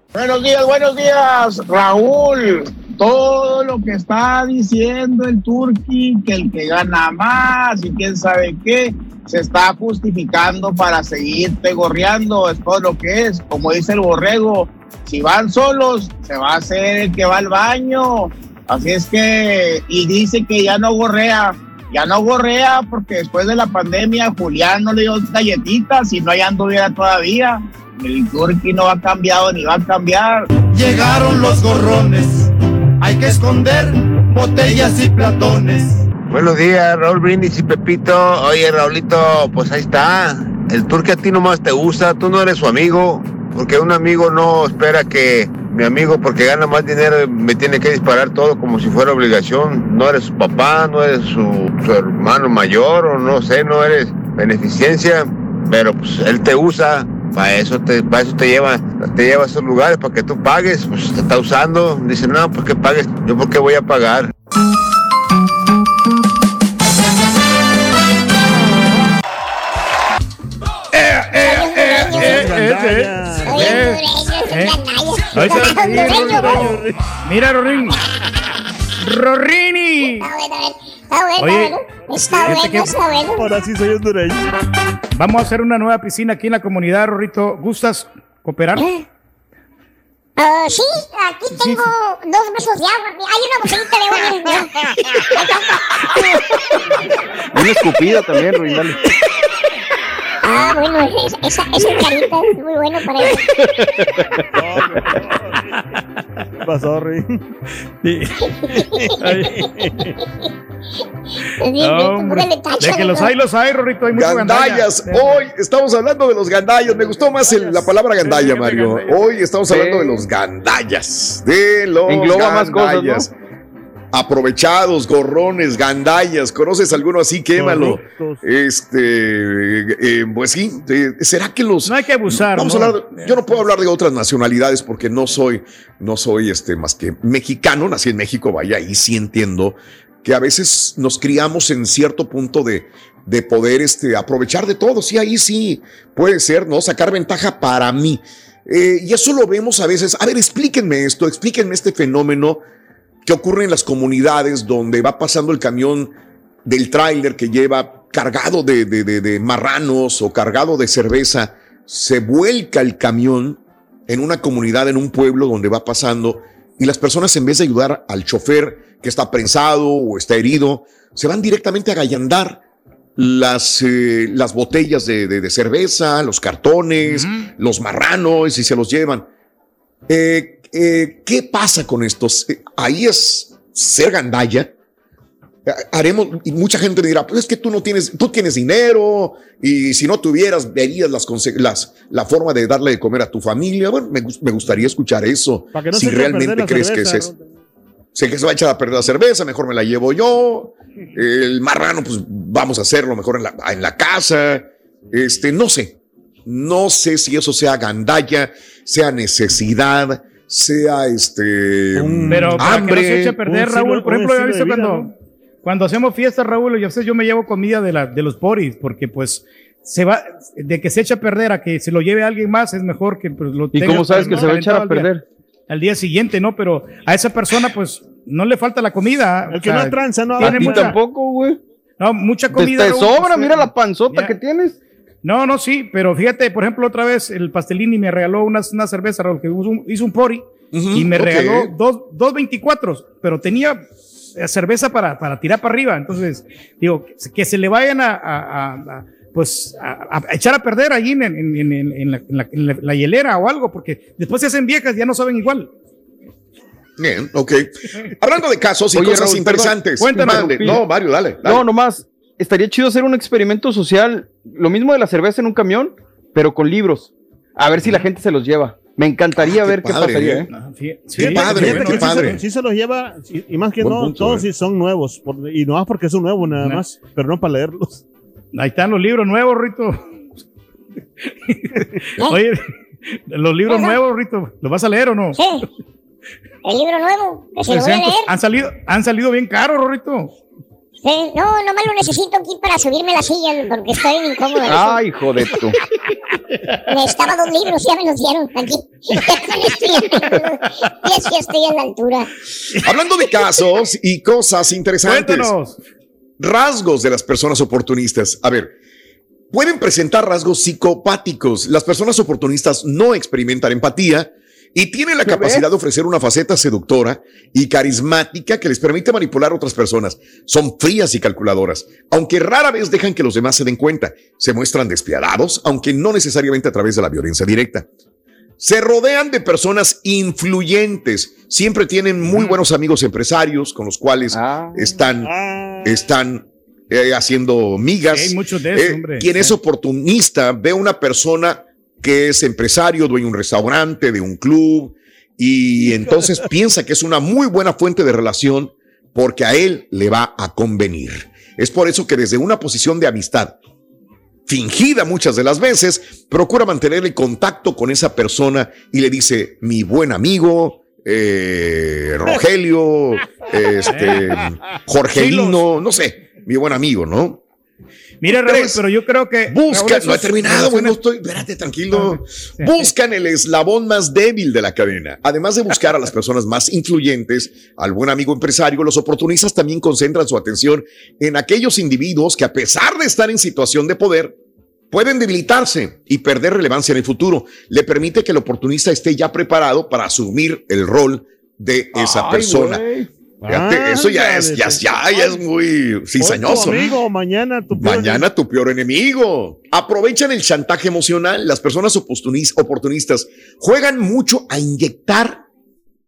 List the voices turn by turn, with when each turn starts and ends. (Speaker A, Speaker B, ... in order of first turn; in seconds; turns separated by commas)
Speaker A: 0.1-30.4, Speaker B: 30.6-36.0, Speaker C: 36.3-64.3, Speaker D: 70.9-74.8, Speaker E: 71.4-72.6, Speaker F: 72.0-73.8, Speaker E: 73.4-76.7, Speaker D: 75.3-78.0, Speaker F: 75.6-77.0, Speaker D: 79.0-80.3, Speaker E: 80.2-83.5, Speaker D: 81.4-83.0, Speaker F: 83.4-84.5, Speaker D: 85.2-88.9, Speaker E: 88.8-89.0, Speaker E: 90.4-96.2, Speaker D: 91.5-91.8, Speaker G: 97.5-99.0, Speaker E: 100.4-103.8, Speaker F: 104.5-105.8, Speaker F: 106.6-107.4, Speaker D: 108.0-109.6, Speaker E: 108.6-109.7, Speaker E: 111.6-113.3, Speaker D: 111.8-115.4, Speaker H: 114.1-123.3, Speaker D: 117.3-119.3, Speaker G: 119.7-120.2, Speaker G: 122.0-123.3, Speaker H: 124.1-152.6, Speaker F: 127.5-128.4, Speaker D: 131.8-133.4, Speaker H: 153.2-156.1, Speaker H: 156.6-172.6, Speaker H: 173.2-179.2, Speaker D: 177.0-177.5, Speaker H: 180.1-184.7, Speaker H: 185.7-197.3, Speaker F: 195.7-197.4, Speaker H: 198.1-213.3, Speaker F: 211.9-215.1, Speaker D: 212.3-215.1, Speaker D: 215.6-225.1, Speaker G: 223.7-225.2, Speaker F: 223.9-224.5, Speaker D: 225.7-230.9, Speaker F: 229.5-230.9, Speaker G: 230.4-231.6, Speaker D: 232.0-234.3, Speaker G: 232.5-234.8, Speaker D: 235.2-255.7, Speaker H: 240.7-241.7, Speaker H: 257.0-261.7, Speaker G: 258.9-260.8, Speaker D: 260.0-260.8, Speaker G: 261.4-270.5, Speaker H: 269.3-270.5, Speaker D: 270.5-272.1, Speaker H: 271.2-272.4, Speaker F: 271.2-278.0, Speaker H: 273.8-274.4, Speaker D: 278.5-280.0, Speaker D: 281.5-285.4, Speaker E: 283.7-283.9, Speaker E: 285.3-285.6, Speaker E: 286.6-288.3, Speaker D: 287.7-290.3, Speaker E: 291.0-295.0, Speaker G: 294.6-295.8, Speaker E: 296.9-302.3, Speaker H: 302.8-305.5, Speaker D: 305.0-305.8, Speaker H: 306.4-308.7, Speaker H: 309.5-327.9, Speaker G: 315.2-315.6, Speaker H: 328.6-335.3, Speaker G: 334.3-334.8, Speaker F: 335.2-336.0, Speaker H: 335.8-353.6, Speaker D: 338.1-339.5, Speaker H: 354.4-367.4, Speaker D: 363.9-364.2, Speaker D: 365.1-365.6, Speaker D: 368.2-371.0, Speaker H: 368.3-368.8, Speaker H: 369.5-384.4, Speaker D: 371.9-372.9, Speaker H: 384.9-392.8, Speaker G: 391.9-393.1, Speaker F: 393.4-395.4, Speaker H: 393.4-396.9, Speaker F: 396.2-398.2, Speaker H: 397.7-405.4